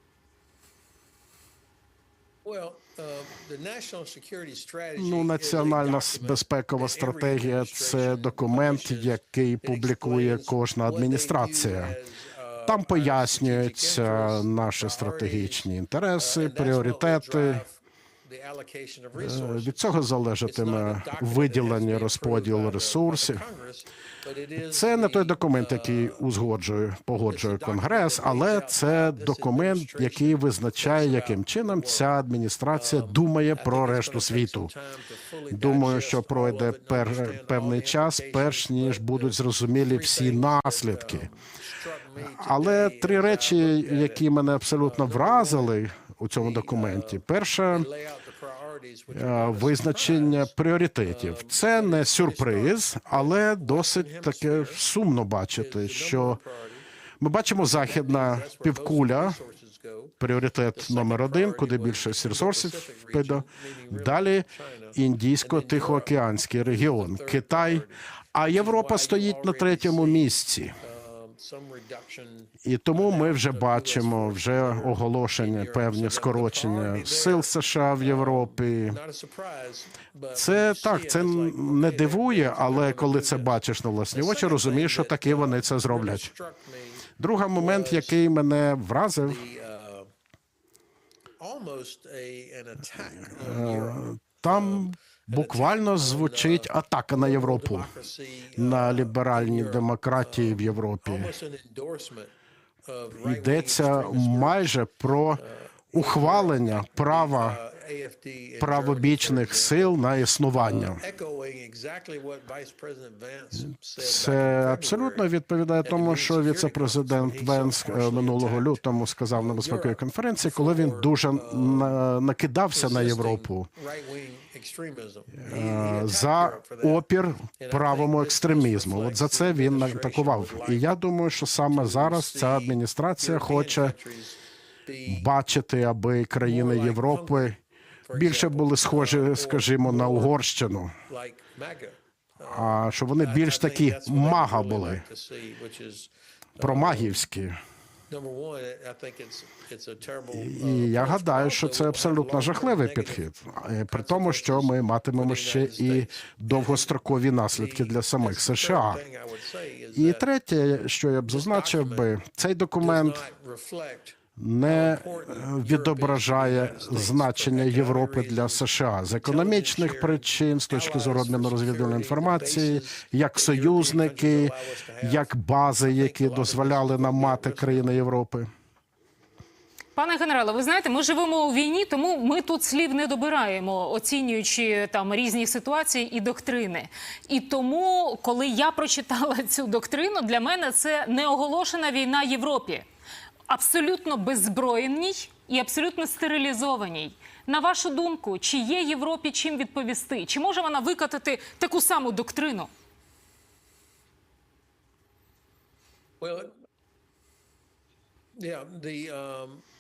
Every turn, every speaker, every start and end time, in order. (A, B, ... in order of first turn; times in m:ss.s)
0:02.4-0:26.3 A
0:05.0-0:12.0 B
0:12.7-0:17.6 B
0:19.2-0:23.4 B
0:24.6-0:34.7 B
0:27.2-0:32.2 A
0:32.7-0:45.8 A
0:35.5-0:41.3 B
0:42.2-0:47.9 B
0:46.4-0:54.8 A
0:49.1-0:56.4 B
0:55.6-0:56.8 A
0:57.2-0:59.4 B
0:57.6-1:00.2 A
1:00.2-1:10.8 B
1:00.8-1:23.6 A
1:12.6-1:19.0 B
1:20.4-1:26.3 B
1:24.1-1:28.2 A
1:27.2-1:29.4 B
1:29.2-1:30.1 A
1:31.4-1:42.3 A
1:33.3-1:37.9 B
1:38.6-1:41.3 B
1:42.9-1:44.6 A
1:43.2-1:47.6 B
1:45.4-1:50.0 A
1:48.6-1:51.0 B
1:50.6-1:55.3 A
1:54.0-2:03.7 B
1:55.8-1:58.8 A
1:59.3-2:02.1 A
2:02.7-2:07.0 A
2:05.4-2:13.9 B
2:07.6-2:10.9 A
2:11.7-2:15.3 A
2:15.1-2:17.6 B
2:16.4-2:17.5 A
2:18.1-2:20.4 A
2:18.1-2:21.0 B
2:21.1-2:27.2 A
2:22.4-2:25.0 B
2:26.6-2:27.6 B
2:28.1-2:33.3 A
2:30.3-2:39.0 B
2:33.9-2:37.0 A
2:37.5-2:40.3 A
2:40.0-2:43.2 B
2:41.3-2:42.1 A
2:42.8-2:58.0 A
2:44.4-2:58.5 B
3:00.0-3:12.9 C
3:13.5-3:22.7 C
3:26.2-3:26.5 A
3:28.4-3:29.6 A